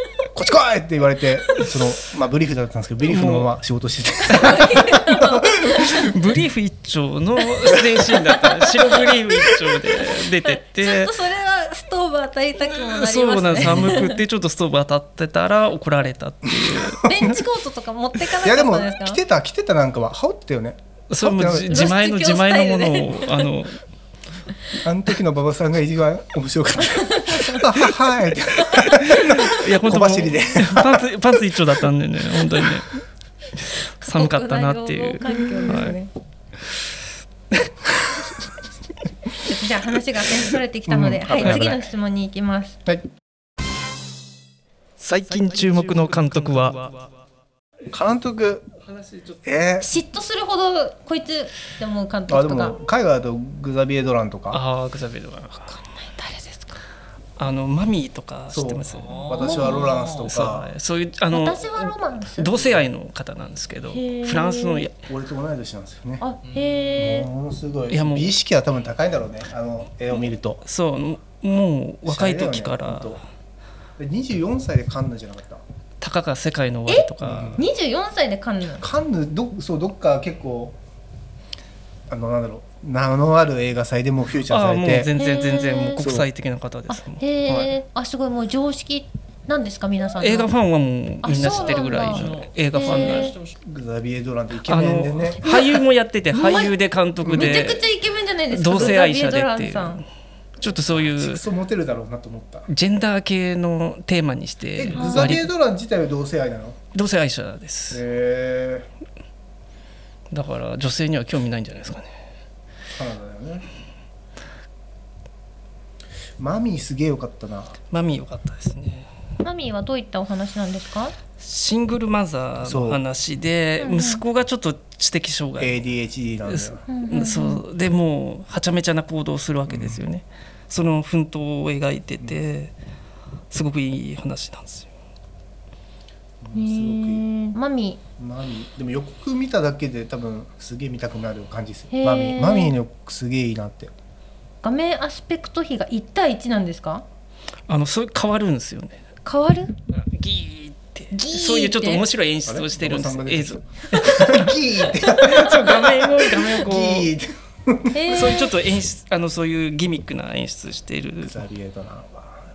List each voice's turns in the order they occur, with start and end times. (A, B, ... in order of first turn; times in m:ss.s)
0:00.3-0:05.8 A
0:03.0-0:03.5 B
0:04.2-0:06.1 C
0:05.6-0:11.2 B
0:08.3-0:14.2 C
0:12.7-0:17.1 B
0:16.4-0:17.4 A
0:17.0-0:19.2 C
0:18.4-0:21.8 A
0:21.1-0:23.8 B
0:21.6-0:23.5 C
0:24.8-0:31.1 A
0:26.8-0:27.7 C
0:29.0-0:33.0 B
0:33.6-0:36.0 B
0:34.0-0:36.1 C
0:39.4-0:42.8 C
0:40.9-0:41.8 A
0:41.4-0:41.7 B
0:45.0-0:47.0 B
0:47.9-0:48.7 A
0:49.4-0:49.9 A
0:49.8-0:52.8 C
0:52.3-0:54.6 A
0:54.5-0:55.8 B
0:56.0-0:56.8 C
0:57.4-1:05.0 B
0:58.5-1:00.7 A
0:59.4-1:00.0 C
1:01.3-1:02.7 C
1:03.9-1:04.9 C
1:05.1-1:06.2 A
1:06.2-1:07.3 C
1:07.0-1:10.6 A
1:07.9-1:08.3 B
1:10.6-1:13.2 B
1:12.0-1:13.2 A
1:14.0-1:15.6 A
1:16.0-1:17.6 B
1:16.9-1:18.8 C
1:17.2-1:17.6 A
1:18.8-1:20.8 A
1:22.1-1:25.1 A
1:24.5-1:27.7 B
1:25.2-1:26.0 C
1:26.0-1:26.3 A
1:26.9-1:30.5 C
1:30.2-1:33.4 B
1:31.2-1:33.4 C
1:33.5-1:35.4 A
1:34.7-1:37.8 B
1:35.4-1:35.8 C
1:36.3-1:36.7 C
1:37.2-1:37.6 A
1:37.3-1:40.0 C
1:38.5-1:40.0 B
1:40.6-1:41.4 B
1:41.0-1:42.6 A
1:42.7-1:45.5 B
1:44.7-1:46.8 A
1:44.9-1:45.3 C
1:46.9-1:48.0 B
1:47.9-1:48.9 A
1:50.3-1:52.1 B
1:52.9-1:53.7 A
1:56.4-1:57.8 A
1:57.9-1:59.1 B
1:59.4-2:01.1 C
2:01.4-2:05.8 B
2:02.6-2:03.0 A
2:03.8-2:04.2 C
2:05.6-2:06.8 A
2:06.5-2:12.7 B
2:06.9-2:07.6 C
2:09.7-2:10.0 A
2:13.5-2:14.9 B
2:16.4-2:17.2 A
2:16.5-2:18.0 C
2:18.2-2:23.9 A
2:21.9-2:22.8 C
2:24.6-2:27.0 C
2:27.7-2:29.0 B
2:29.2-2:29.7 C
2:29.9-2:37.1 B
2:31.1-2:32.0 C
2:32.4-2:38.1 A
2:37.9-2:38.5 C
2:38.1-2:41.4 B
2:41.2-2:42.4 A